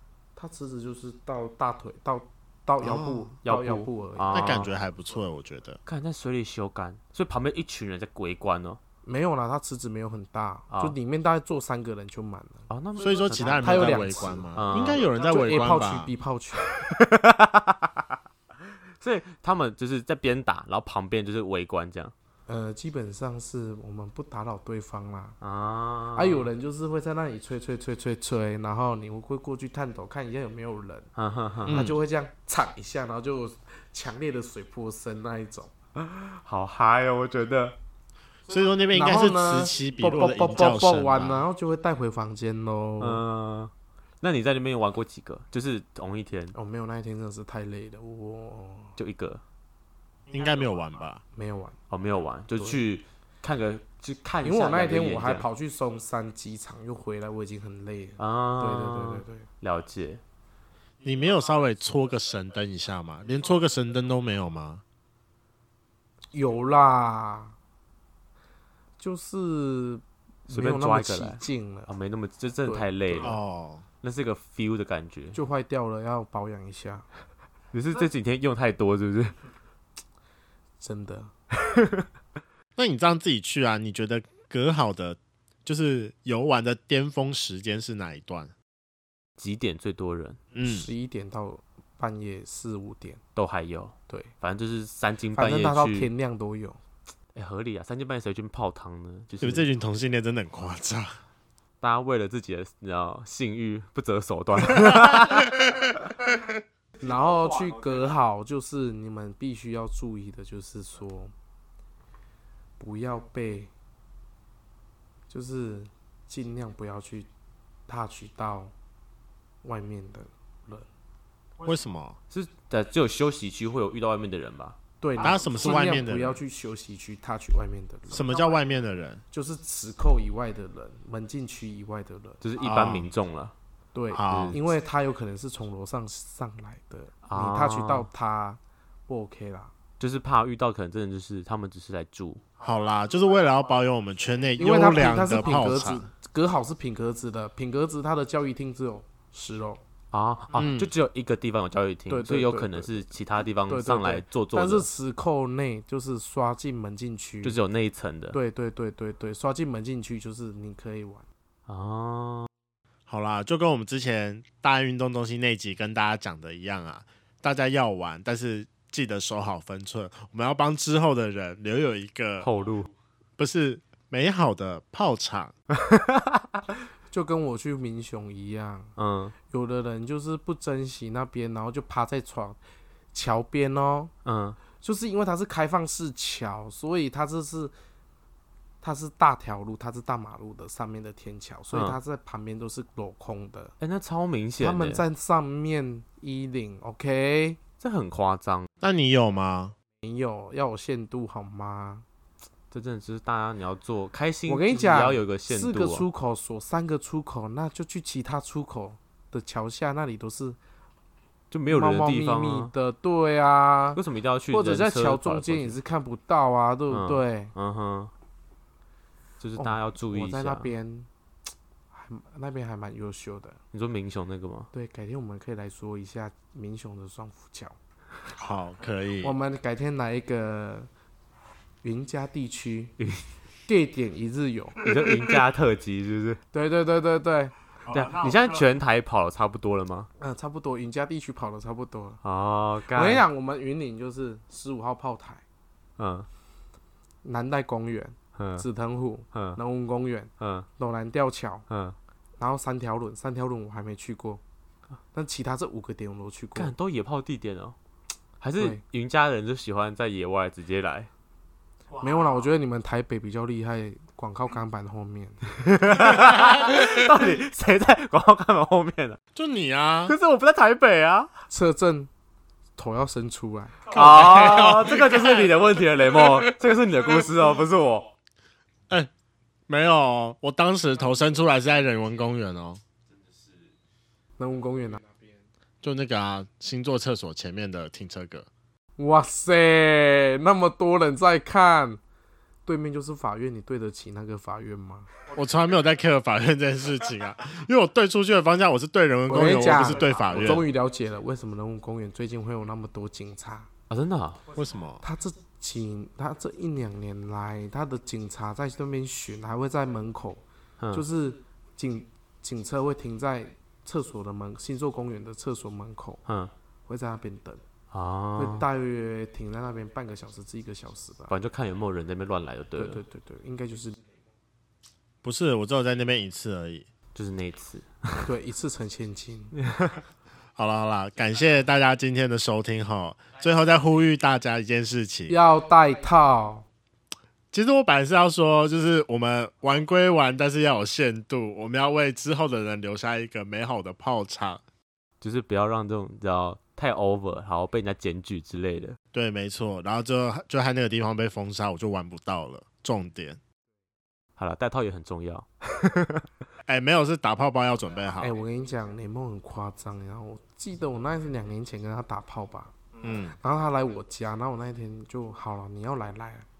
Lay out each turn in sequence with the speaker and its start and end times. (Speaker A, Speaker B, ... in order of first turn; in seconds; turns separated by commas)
Speaker A: 0.3-4.6, Speaker B: 2.8-3.3, Speaker C: 3.4-4.7, Speaker B: 4.3-5.8, Speaker C: 5.8-8.8, Speaker A: 9.0-12.6, Speaker C: 10.7-10.9, Speaker C: 12.7-15.1, Speaker B: 13.0-16.1, Speaker A: 13.4-16.8, Speaker C: 16.7-18.1, Speaker C: 19.0-22.1, Speaker A: 22.5-25.4, Speaker C: 25.4-26.5, Speaker A: 26.1-31.1, Speaker C: 31.1-31.8, Speaker A: 31.6-35.7, Speaker B: 31.7-32.0, Speaker C: 36.0-37.8, Speaker B: 38.5-41.5, Speaker A: 38.9-43.2, Speaker C: 43.0-43.7, Speaker C: 44.2-46.5, Speaker A: 46.5-49.0, Speaker C: 49.0-49.4, Speaker B: 50.3-51.2, Speaker A: 51.3-51.8, Speaker C: 51.9-55.5, Speaker A: 52.5-52.8, Speaker A: 54.4-59.5, Speaker C: 58.2-60.2, Speaker B: 61.0-64.8, Speaker A: 66.3-67.5, Speaker A: 69.0-71.9, Speaker C: 70.5-73.4, Speaker A: 72.6-73.4, Speaker B: 73.2-73.8, Speaker C: 74.0-75.4, Speaker A: 75.3-77.0, Speaker C: 77.7-79.4, Speaker A: 80.8-81.3, Speaker C: 81.7-82.0, Speaker B: 82.8-88.5, Speaker C: 89.4-90.4, Speaker B: 90.5-90.9, Speaker A: 90.6-93.2, Speaker C: 93.3-96.1, Speaker A: 95.3-96.8, Speaker C: 97.3-99.7, Speaker B: 99.4-101.2, Speaker C: 101.8-105.8, Speaker A: 107.0-111.3, Speaker A: 112.8-113.7, Speaker A: 115.3-117.3, Speaker A: 117.9-118.7, Speaker A: 119.6-120.9, Speaker B: 121.6-122.2, Speaker C: 122.3-124.8, Speaker A: 125.0-128.3, Speaker B: 125.2-126.4, Speaker B: 128.1-129.2, Speaker A: 129.3-132.4, Speaker C: 132.4-133.5, Speaker B: 132.6-133.1, Speaker A: 133.9-139.7, Speaker B: 134.1-134.6, Speaker C: 134.3-134.6, Speaker C: 137.2-138.1, Speaker C: 140.0-142.4, Speaker B: 142.6-146.1, Speaker A: 144.6-149.8, Speaker C: 150.1-154.9, Speaker B: 150.5-150.9, Speaker A: 152.1-157.6, Speaker C: 157.4-158.4, Speaker A: 158.3-161.2, Speaker C: 161.7-162.5, Speaker B: 163.1-172.5, Speaker C: 172.4-172.9, Speaker B: 173.4-175.5, Speaker C: 175.9-176.4, Speaker A: 177.1-178.9, Speaker C: 179.0-179.3, Speaker A: 179.5-182.6, Speaker A: 183.1-184.1, Speaker C: 184.2-184.6, Speaker A: 184.8-187.7, Speaker A: 188.8-193.7, Speaker C: 191.7-192.0, Speaker C: 193.8-195.0, Speaker A: 194.6-197.6, Speaker C: 197.8-198.7, Speaker B: 198.8-199.7, Speaker A: 200.0-202.0, Speaker C: 202.7-206.1, Speaker A: 204.4-210.6, Speaker C: 211.5-212.7, Speaker A: 211.7-217.5, Speaker C: 213.9-215.8, Speaker C: 216.9-218.1, Speaker C: 219.4-220.7, Speaker A: 219.6-221.1, Speaker A: 221.9-223.6, Speaker C: 223.7-224.7, Speaker A: 224.7-227.8, Speaker B: 228.4-229.3, Speaker A: 229.2-230.9, Speaker A: 231.8-232.9, Speaker C: 233.0-233.2, Speaker A: 233.7-234.8, Speaker C: 234.8-236.4, Speaker A: 236.5-237.5, Speaker B: 237.9-238.6, Speaker C: 237.9-240.1, Speaker A: 240.2-242.2, Speaker C: 242.2-243.2, Speaker A: 242.9-245.4, Speaker C: 246.0-246.3, Speaker A: 247.2-251.6, Speaker C: 248.4-248.6, Speaker C: 249.3-249.6, Speaker C: 250.4-250.7, Speaker C: 251.7-251.9, Speaker A: 252.4-254.4, Speaker A: 255.1-256.7, Speaker C: 256.6-257.8, Speaker C: 258.4-261.1, Speaker A: 261.9-265.4, Speaker C: 265.6-269.2, Speaker B: 269.3-270.1, Speaker C: 270.1-271.3, Speaker A: 271.5-272.1, Speaker A: 272.8-273.8, Speaker B: 273.9-275.5, Speaker C: 273.9-278.1, Speaker B: 279.7-282.8, Speaker A: 284.4-285.2, Speaker B: 285.8-288.5, Speaker A: 289.0-292.0, Speaker A: 292.6-295.1, Speaker B: 295.3-300.6, Speaker A: 299.3-303.7, Speaker C: 303.9-304.4, Speaker B: 304.5-305.0, Speaker A: 305.0-316.2, Speaker C: 316.2-316.5, Speaker A: 316.9-317.6, Speaker C: 317.9-318.6, Speaker A: 318.4-321.3, Speaker C: 321.3-323.0, Speaker A: 322.8-324.0, Speaker B: 325.2-326.9, Speaker C: 327.1-328.3, Speaker A: 328.2-329.5, Speaker C: 329.6-330.0, Speaker B: 330.6-335.4, Speaker A: 335.3-336.7, Speaker B: 337.5-344.6, Speaker C: 345.2-349.0, Speaker B: 349.1-353.4, Speaker C: 354.4-356.2, Speaker B: 356.7-358.4, Speaker A: 358.2-362.7, Speaker B: 363.0-363.4, Speaker A: 363.3-366.5